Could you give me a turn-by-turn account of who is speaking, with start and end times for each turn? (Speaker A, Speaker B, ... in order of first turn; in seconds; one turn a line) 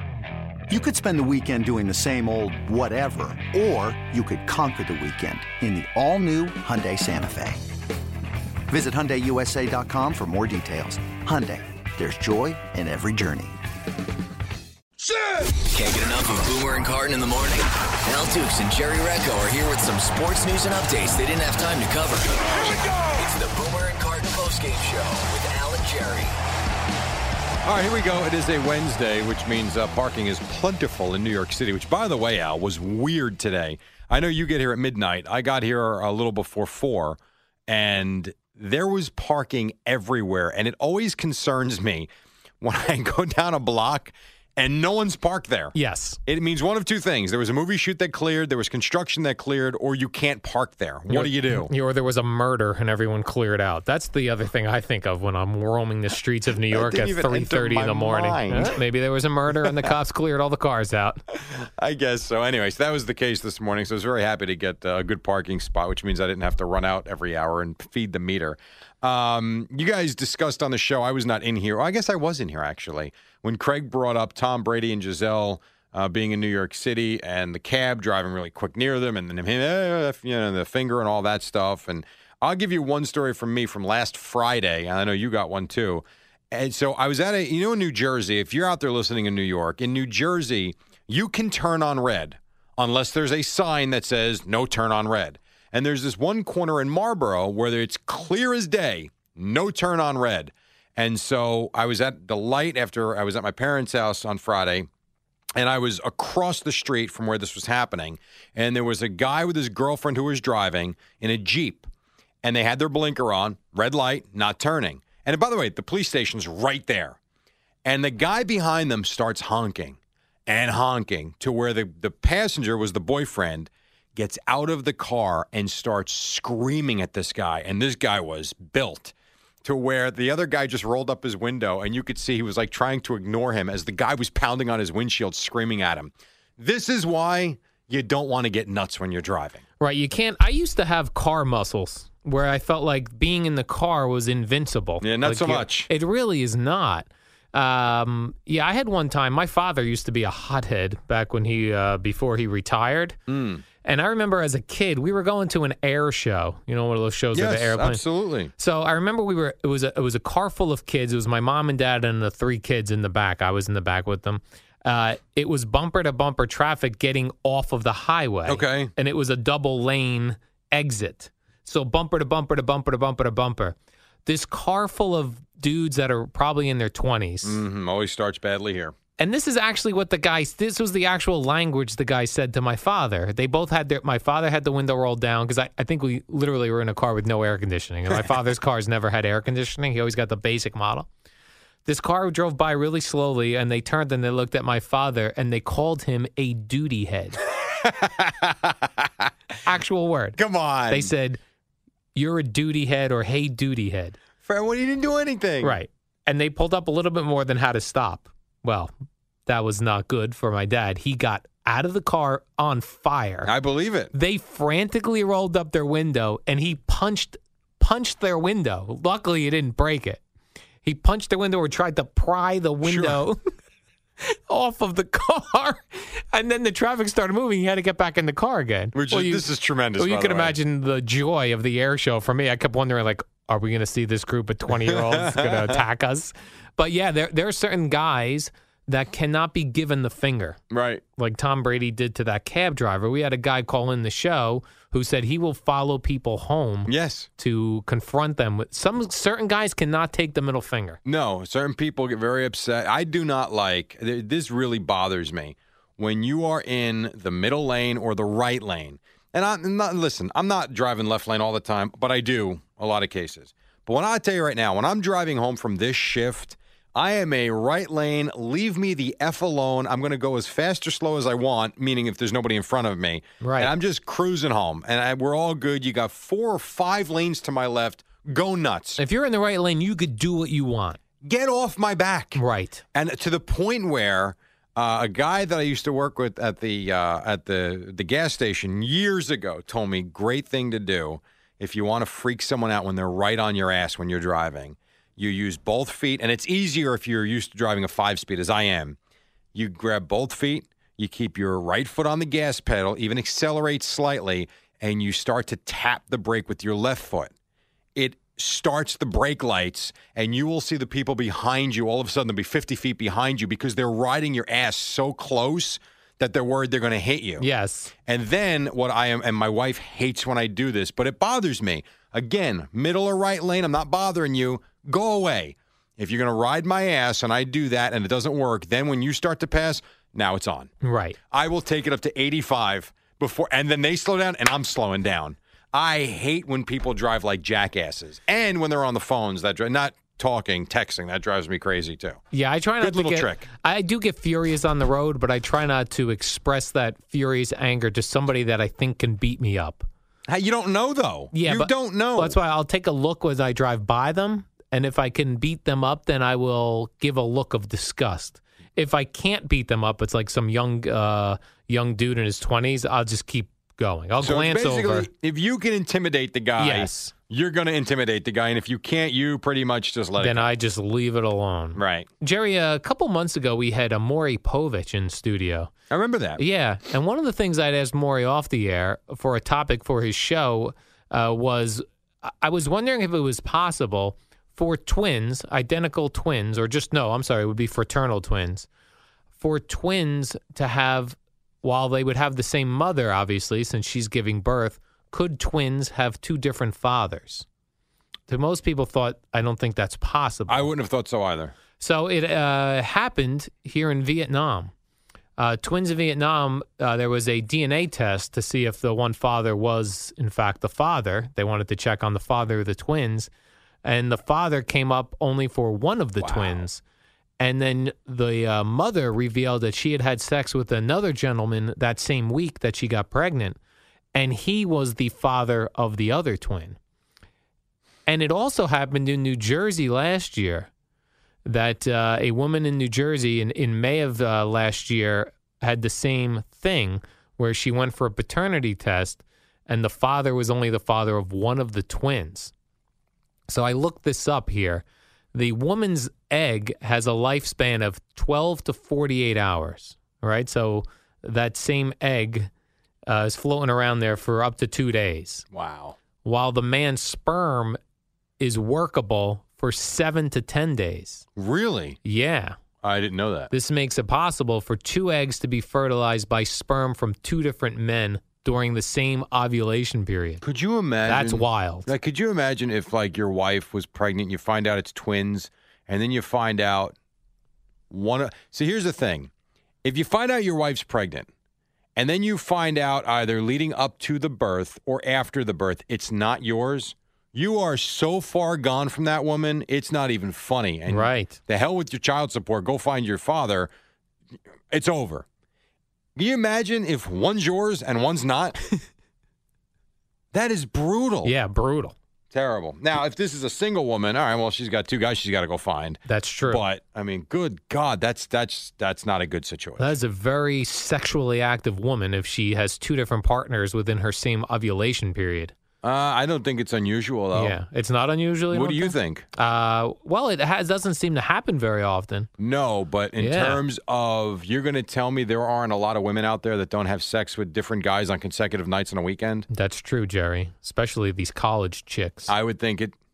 Speaker A: 0.7-7.7
Speaker A: 8.7-13.6
Speaker B: 15.7-26.3
Speaker C: 27.6-42.1
Speaker C: 42.6-45.8
Speaker D: 45.8-46.2
Speaker C: 46.3-51.7
Speaker D: 51.1-61.2
Speaker C: 56.7-58.8
Speaker C: 59.6-60.0
Speaker C: 61.3-104.9
Speaker C: 105.6-111.9
Speaker C: 112.4-117.2
Speaker C: 117.8-139.6
Speaker D: 139.8-153.2
Speaker C: 145.0-145.9
Speaker C: 153.3-153.6
Speaker D: 153.8-158.0
Speaker C: 157.3-158.5
Speaker D: 158.6-177.6
Speaker C: 168.5-168.9
Speaker C: 177.4-178.9
Speaker D: 179.2-191.1
Speaker D: 191.9-197.4
Speaker C: 197.6-199.3
Speaker D: 199.7-200.4
Speaker C: 200.4-201.1
Speaker D: 200.9-201.4
Speaker D: 202.2-204.2
Speaker C: 204.4-205.8
Speaker D: 205.6-208.9
Speaker D: 209.5-213.5
Speaker C: 213.4-214.1
Speaker D: 214.1-220.2
Speaker D: 220.8-223.4
Speaker C: 222.8-223.2
Speaker D: 224.2-229.5
Speaker C: 228.9-230.6
Speaker D: 230.0-240.6
Speaker C: 234.7-235.8
Speaker C: 240.7-241.0
Speaker D: 241.2-251.0
Speaker C: 246.9-247.3
Speaker C: 251.1-279.0
Speaker D: 273.4-273.7
Speaker D: 279.0-281.0
Speaker C: 281.2-282.4
Speaker D: 282.4-282.8
Speaker C: 282.9-299.0
Speaker C: 299.5-307.3
Speaker C: 308.0-317.5
Speaker D: 317.4-317.9
Speaker C: 318.1-330.7
Speaker D: 330.8-331.2
Speaker C: 331.3-342.2
Speaker D: 342.3-349.9
Speaker C: 342.8-343.5
Speaker C: 350.3-352.4
Speaker D: 351.3-365.1
Speaker C: 364.2-370.5
Speaker D: 366.6-367.1
Speaker D: 370.2-375.7
Speaker C: 371.8-372.1
Speaker C: 375.9-376.4
Speaker D: 376.4-388.7
Speaker D: 389.4-397.5
Speaker D: 398.3-400.7
Speaker C: 400.5-401.6
Speaker D: 401.8-404.7
Speaker D: 405.4-413.3
Speaker D: 413.8-416.8
Speaker C: 416.2-416.6
Speaker D: 417.4-423.6
Speaker D: 424.1-426.8
Speaker D: 428.1-430.7
Speaker D: 431.4-442.5
Speaker D: 443.5-452.5
Speaker D: 453.1-455.5
Speaker C: 455.5-456.0
Speaker D: 456.2-457.8
Speaker D: 458.4-461.3
Speaker C: 461.4-462.0
Speaker D: 462.0-462.6
Speaker C: 462.8-463.5
Speaker D: 463.5-470.4
Speaker C: 470.4-476.9
Speaker D: 471.1-471.9
Speaker C: 477.9-479.3
Speaker C: 479.8-481.3
Speaker C: 482.0-493.7
Speaker D: 490.9-491.4
Speaker C: 494.7-495.2
Speaker C: 496.2-498.6
Speaker C: 500.3-501.3
Speaker D: 501.2-501.9
Speaker C: 502.3-509.9
Speaker D: 506.1-506.6
Speaker D: 509.8-515.5
Speaker C: 515.8-517.6
Speaker D: 517.3-522.3
Speaker C: 518.5-519.3
Speaker C: 522.4-529.5
Speaker D: 523.2-523.6
Speaker D: 529.5-532.3
Speaker C: 532.3-532.9